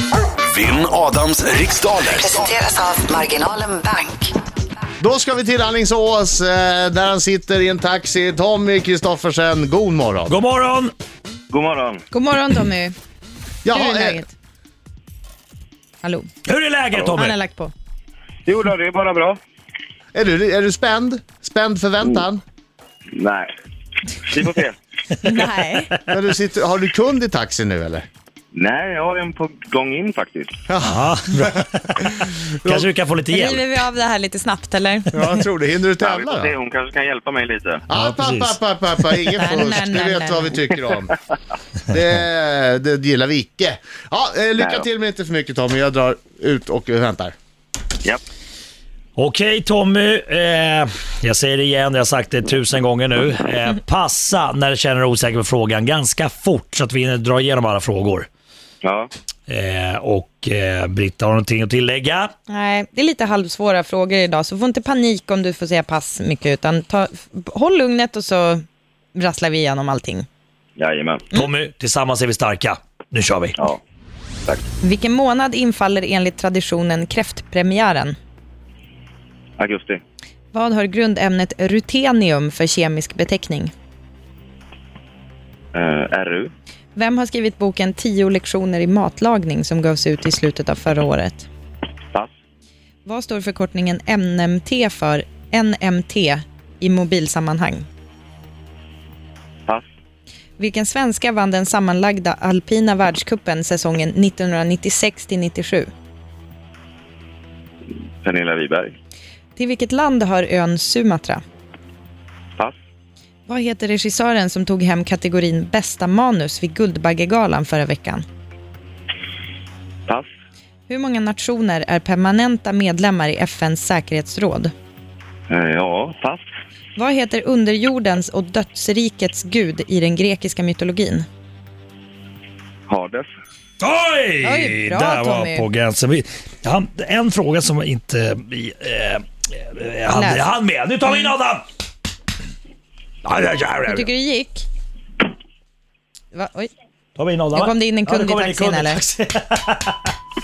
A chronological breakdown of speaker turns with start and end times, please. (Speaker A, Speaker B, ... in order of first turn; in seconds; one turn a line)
Speaker A: 0.4-2.6
Speaker B: 2.1-4.4
Speaker C: 5.0-10.4
Speaker D: 10.3-10.9
Speaker E: 11.5-12.0
Speaker F: 12.1-12.9
Speaker C: 13.7-14.3
Speaker F: 13.7-14.3
Speaker F: 16.0-16.3
Speaker D: 16.5-17.4
Speaker F: 17.2-17.7
Speaker E: 18.5-19.4
Speaker C: 20.1-22.4
Speaker E: 23.2-23.5
Speaker E: 24.2-24.8
Speaker F: 25.2-25.9
Speaker C: 26.1-28.1
Speaker E: 28.5-30.5
Speaker C: 30.7-32.9
Speaker D: 30.8-33.8
Speaker F: 33.3-35.4
Speaker C: 35.1-36.5
Speaker E: 36.0-37.8
Speaker C: 37.9-41.1
Speaker D: 37.9-38.6
Speaker F: 39.4-40.6
Speaker C: 41.9-47.4
Speaker E: 44.6-44.9
Speaker D: 49.2-58.3
Speaker E: 58.8-59.1
Speaker D: 59.5-62.3
Speaker F: 62.5-68.6
Speaker F: 69.2-70.3
Speaker E: 70.8-71.3
Speaker D: 71.3-73.6
Speaker F: 74.8-78.2
Speaker E: 79.6-80.0
Speaker F: 80.5-83.7
Speaker E: 85.7-86.5
Speaker F: 87.0-91.5
Speaker F: 93.0-97.9
Speaker F: 100.6-105.9
Speaker E: 108.2-109.0
Speaker F: 109.6-111.4
Speaker F: 113.5-118.2
Speaker F: 120.9-124.7
Speaker E: 125.5-126.4
Speaker F: 127.0-131.3
Speaker E: 132.9-133.3
Speaker D: 133.8-141.6
Speaker F: 134.4-135.7
Speaker F: 140.1-140.5
Speaker D: 143.2-144.1
Speaker F: 143.9-144.7
Speaker F: 146.3-146.7
Speaker D: 147.2-150.1
Speaker F: 147.5-149.0